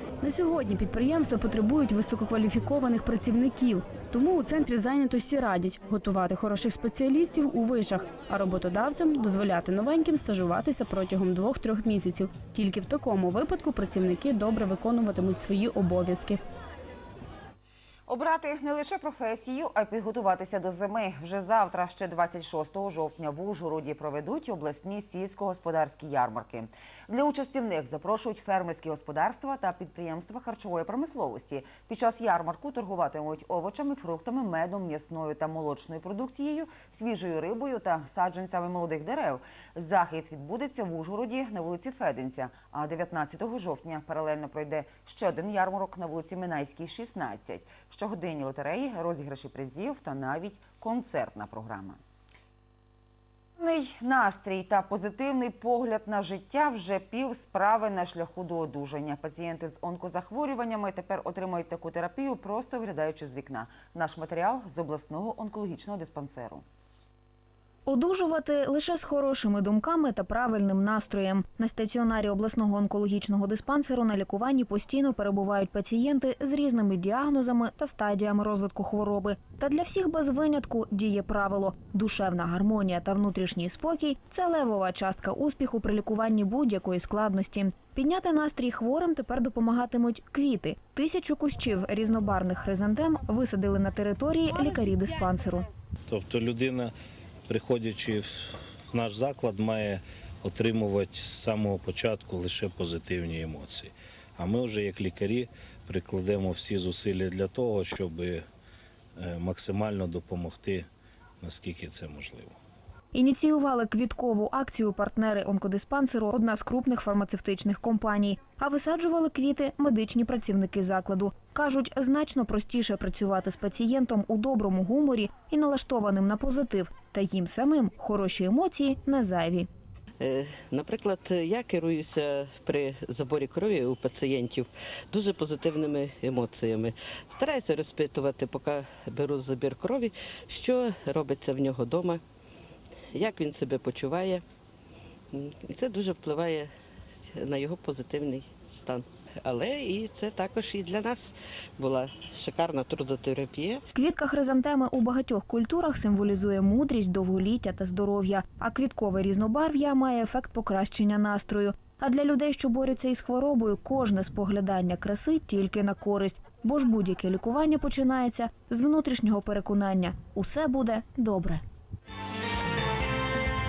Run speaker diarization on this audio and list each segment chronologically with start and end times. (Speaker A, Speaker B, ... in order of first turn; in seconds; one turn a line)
Speaker A: 0.2-16.4
Speaker B: 18.1-52.0
Speaker B: 53.6-66.6
Speaker C: 67.9-95.7
Speaker D: 96.1-96.9
Speaker D: 97.5-98.2
Speaker D: 98.9-108.4
Speaker D: 109.2-110.9
Speaker D: 111.4-112.5
Speaker C: 113.1-129.7
Speaker E: 130.2-142.2
Speaker E: 143.1-144.4
Speaker E: 145.3-146.7
Speaker E: 147.3-153.8
Speaker C: 153.9-171.6